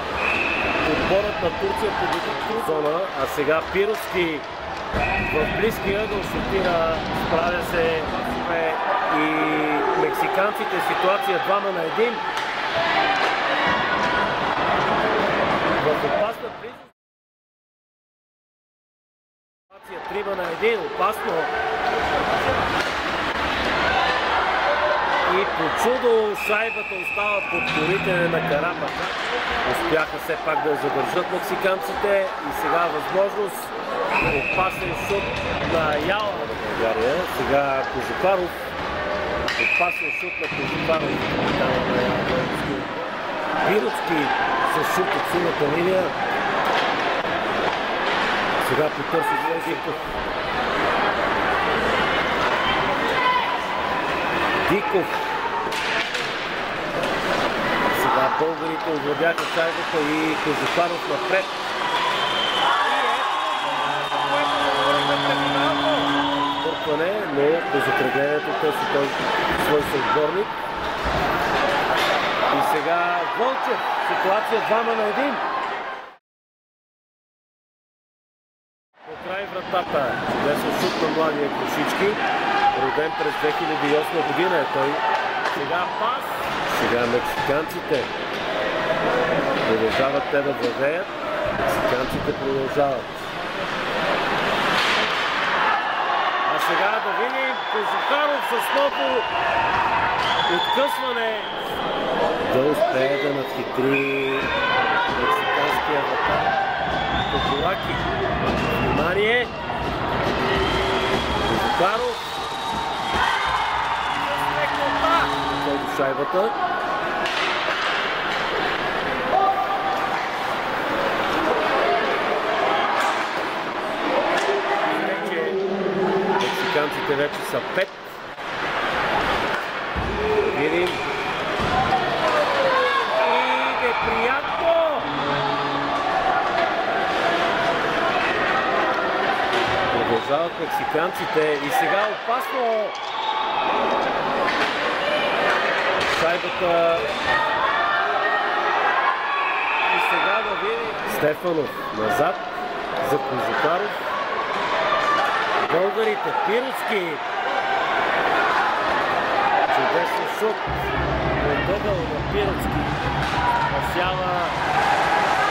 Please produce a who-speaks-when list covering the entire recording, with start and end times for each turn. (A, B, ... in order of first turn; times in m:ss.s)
0:00.8-0:04.4 A
0:05.3-0:12.2 A
0:15.8-0:16.9 A
0:19.7-0:21.5 A
0:25.2-0:38.6 A
0:39.5-0:46.1 A
0:48.6-0:50.1 A
0:54.6-0:55.2 A
0:57.9-1:01.7 A
1:02.8-1:10.6 A
1:12.5-1:15.4 A
1:19.0-1:22.2 A
1:22.7-1:28.1 A
1:29.6-1:31.1 A
1:31.6-1:33.2 A
1:36.4-1:39.3 A
1:40.5-1:41.6 A
1:42.4-1:44.5 A
1:45.1-1:46.6 A
1:47.3-1:48.1 A
1:48.8-1:49.5 A
1:51.4-1:52.2 A
1:54.2-1:56.6 A
2:04.8-2:05.6 A
2:06.4-2:08.1 A
2:10.5-2:11.1 A
2:13.1-2:15.2 A
2:19.9-2:23.0 A
2:26.0-2:27.1 A
2:29.8-2:34.0 A
2:35.6-2:37.2 A
2:39.7-2:43.1 A
2:43.6-2:44.6 A